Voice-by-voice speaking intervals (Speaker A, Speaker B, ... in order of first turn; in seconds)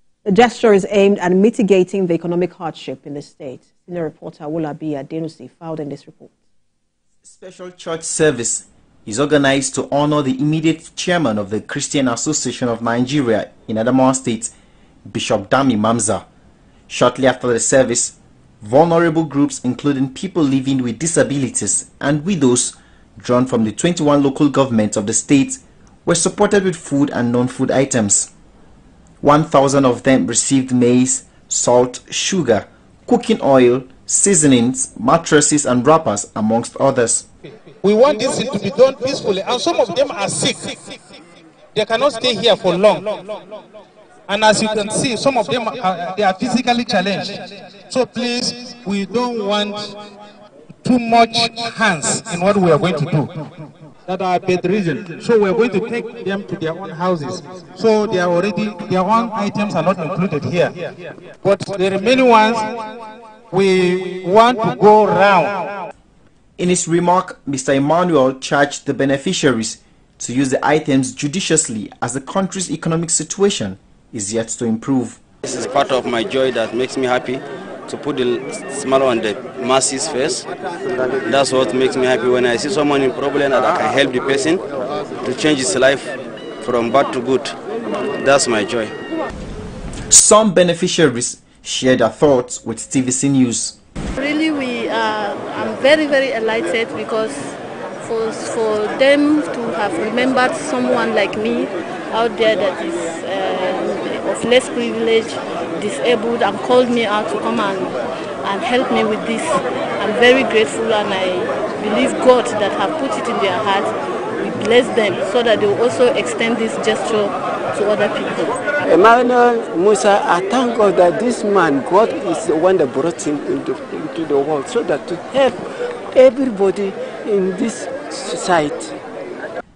Speaker A: 0.2-6.3
Speaker B: 7.2-14.5, 15.1-16.2, 16.9-28.3, 29.2-37.3, 66.6-75.2, 90.1-93.8
Speaker C: 37.8-40.9, 41.7-43.4, 44.3-49.9, 50.8-53.3, 54.1-60.7, 61.4-62.8, 63.5-65.9
Speaker D: 75.5-80.4, 81.3-84.6, 85.2-86.1, 86.6-87.5, 88.2-88.9
Speaker E: 94.2-118.5
Speaker F: 118.8-125.6, 126.1-128.9